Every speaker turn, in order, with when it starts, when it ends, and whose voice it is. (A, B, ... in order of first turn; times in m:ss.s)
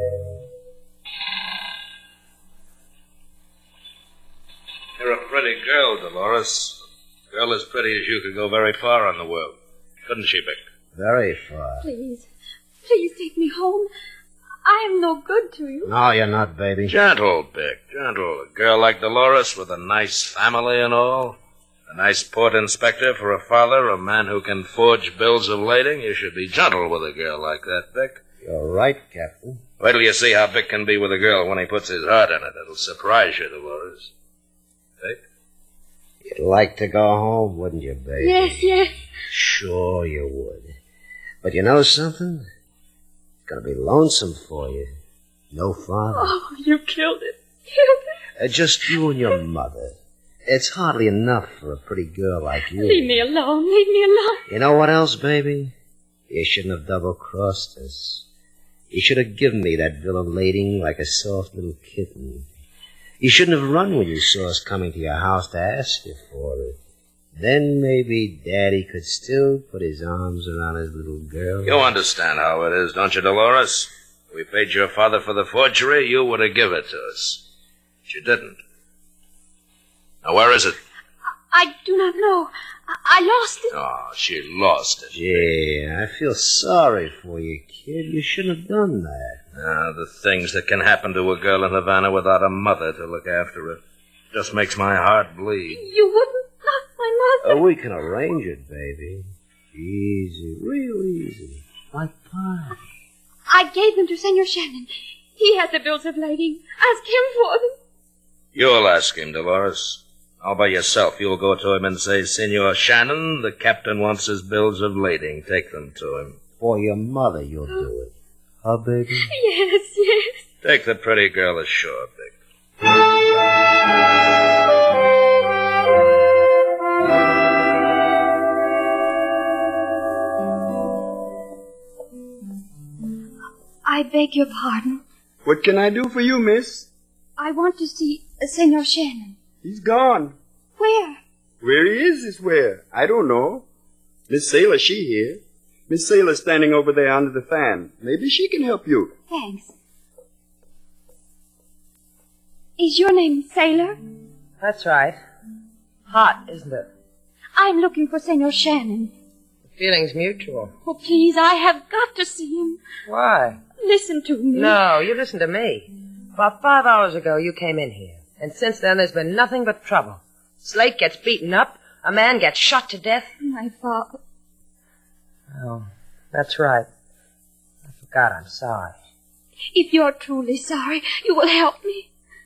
0:05.0-0:06.8 A
0:07.3-0:09.6 A
0:10.1-0:10.6 A
0:10.9-0:11.9 B
0:11.8-0:12.3 C
0:12.8-0:13.9 C
0:14.6-0:15.9 C
0:15.8-0:17.0 B
0:16.9-0:21.4 A
0:21.9-0:28.2 A
0:28.4-0:29.6 B
0:29.8-0:34.1 A
0:36.2-0:40.8 B
0:38.2-0:38.9 C
0:41.4-0:42.5 B
0:43.5-0:44.9 B
0:45.5-0:46.4 B
0:46.1-0:48.0 C
0:48.4-0:53.2 B
0:52.7-0:54.4 C
0:54.5-0:55.7 B
0:56.3-0:58.2 B
0:58.9-1:02.5 B
1:03.2-1:06.8 B
1:07.4-1:11.9 B
1:11.6-1:17.4 A
1:18.1-1:18.6 A
1:20.2-1:20.8 A
1:21.5-1:23.7 C
1:23.7-1:25.4 A
1:25.1-1:29.4 B
1:29.6-1:33.8 A
1:34.3-1:35.8 A
1:35.7-1:37.6 C
1:37.4-1:42.8 B
1:43.5-1:47.8 C
1:48.5-1:56.4 A
1:56.6-1:58.1 B
1:58.6-1:59.3 B
1:59.2-2:00.4 C
2:00.6-2:02.3 A
2:13.8-2:15.0 C
2:15.4-2:16.9 D
2:17.4-2:19.4 C
2:19.6-2:20.4 D
2:20.8-2:21.2 C
2:21.6-2:23.6 D
2:24.3-2:29.2 D
2:29.3-2:29.7 C
2:32.8-2:34.0 C
2:34.6-2:35.2 E
2:36.1-2:36.9 E
2:37.6-2:39.1 C
2:39.8-2:40.7 E
2:40.8-2:42.8 C
2:43.1-2:43.6 E
2:43.8-2:44.8 C
2:44.5-2:53.3 E
2:53.4-2:54.2 C
2:55.5-2:56.9 E
2:58.0-2:59.0 E
2:59.7-3:02.1 C